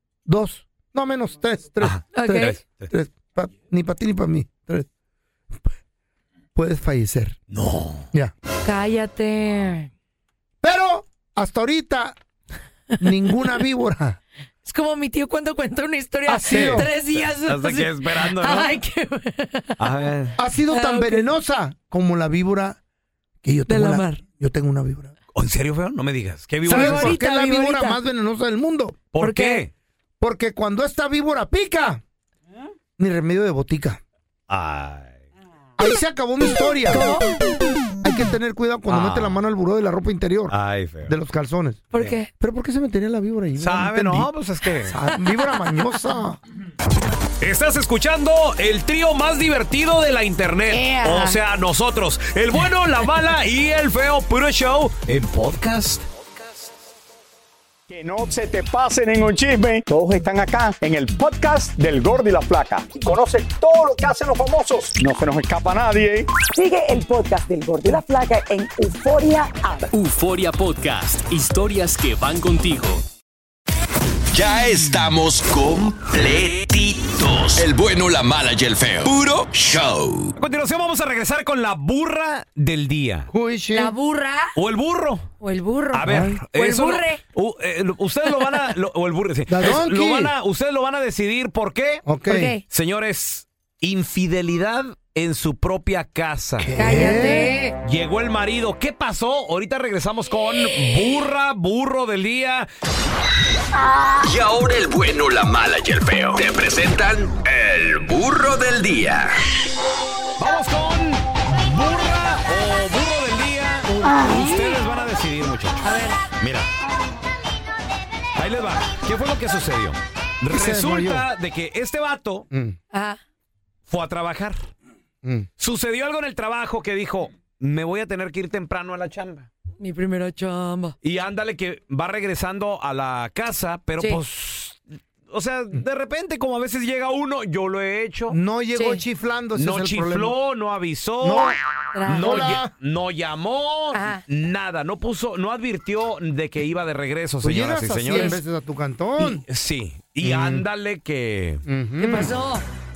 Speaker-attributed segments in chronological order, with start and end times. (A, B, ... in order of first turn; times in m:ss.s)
0:00.2-0:04.9 A
0:01.8-0:02.9 B
0:02.1-0:02.6 C
0:06.5-0:07.4 A
0:07.5-0:08.1 B
0:08.6-0:09.9 C
0:10.6-0:12.2 A
0:13.0-0:14.2 A
0:14.6-0:19.8 C
0:16.3-0:16.9 A
0:16.5-0:18.7 B
0:19.8-0:20.4 B
0:20.4-0:22.8 A
0:20.7-0:21.3 C
0:23.4-0:25.1 A
0:23.7-0:24.2 C
0:25.3-0:27.1 B
0:26.6-0:28.0 C
0:26.6-0:29.0 A
0:29.1-0:29.7 B
0:29.2-0:29.6 C
0:30.2-0:32.0 A
0:33.0-0:34.0 A
0:34.5-0:35.2 B
0:35.8-0:37.1 A
0:36.9-0:37.3 C
0:38.0-0:40.5 A
0:38.9-0:39.4 B
0:40.5-0:41.1 B
0:41.0-0:41.8 A
0:41.9-0:42.3 C
0:42.4-0:44.3 A
0:43.6-0:45.0 B
0:44.8-0:46.4 A
0:47.4-0:56.0 B
0:50.7-0:51.4 C
0:57.9-1:06.3 D
1:06.5-1:09.8 E
1:09.9-1:13.0 F
1:14.3-1:20.3 G
1:20.4-1:23.3 B
1:23.3-1:23.9 A
1:23.7-1:24.5 C
1:24.5-1:25.3 B
1:25.4-1:27.2 C
1:25.9-1:32.0 B
1:26.0-1:26.4 A
1:28.4-1:28.7 C
1:29.5-1:30.3 A
1:32.0-1:32.5 A
1:32.3-1:32.6 C
1:32.7-1:36.7 B
1:36.6-1:37.6 A
1:36.8-1:37.8 C
1:37.8-1:42.7 B
1:44.2-1:49.4 G
1:50.4-1:55.8 B
1:54.0-1:54.3 C
1:55.8-1:56.2 C
1:56.4-1:56.7 B
1:58.4-2:02.5 B
2:00.5-2:01.3 A
2:02.5-2:02.8 A
2:02.9-2:03.2 C
2:03.9-2:04.7 B
2:05.2-2:05.5 A
2:05.6-2:09.5 B
2:09.8-2:10.9 C
2:11.0-2:18.4 B
2:18.3-2:20.4 A
2:18.7-2:19.0 C
2:19.6-2:28.4 B
2:21.2-2:21.6 A
2:21.9-2:22.6 C
2:22.1-2:22.7 A
2:23.9-2:24.2 C
2:27.4-2:29.4 A
2:28.1-2:28.4 C
2:29.2-2:31.6 B
2:30.2-2:30.6 A
2:31.6-2:32.4 A
2:32.0-2:32.6 C